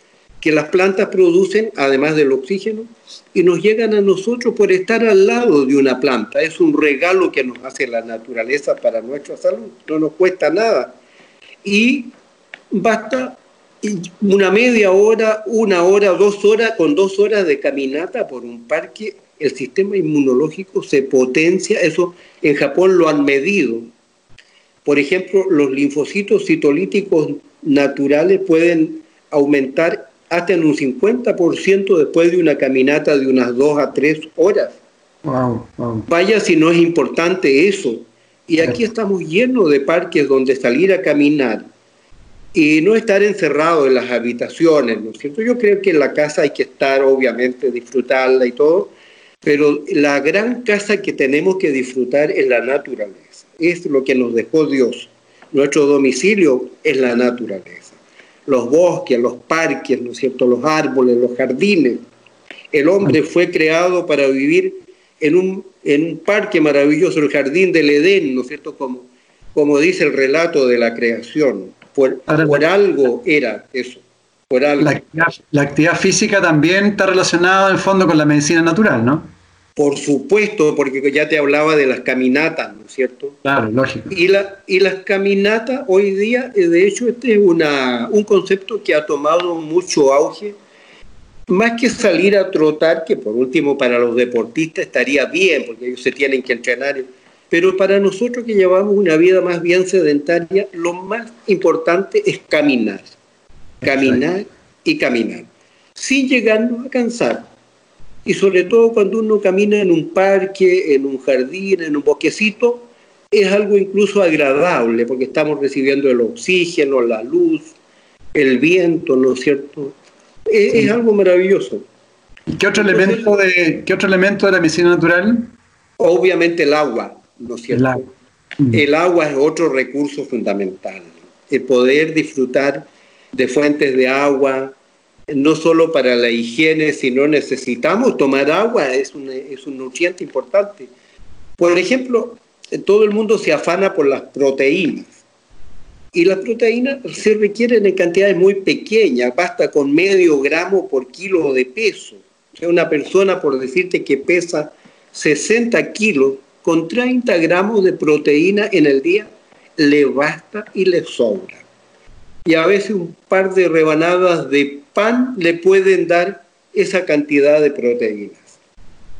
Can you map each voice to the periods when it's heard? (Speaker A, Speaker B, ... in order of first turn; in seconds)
Speaker A: 0.4-10.9, 11.6-12.1, 12.7-23.9, 24.8-34.8, 36.1-41.7, 42.5-48.9, 49.4-57.9, 58.5-62.0, 62.7-75.0, 79.8-83.4, 84.1-90.5, 91.5-103.1, 103.8-107.5, 108.2-117.7, 118.3-119.9, 120.5-121.8, 122.7-123.3, 126.0-128.1, 128.7-134.7, 135.3-140.9, 141.6-145.2, 146.1-161.6, 162.4-168.4
Speaker B: 35.2-36.1, 72.3-72.6, 74.8-79.3, 83.4-84.1, 103.8-104.2, 122.5-125.5, 127.7-128.0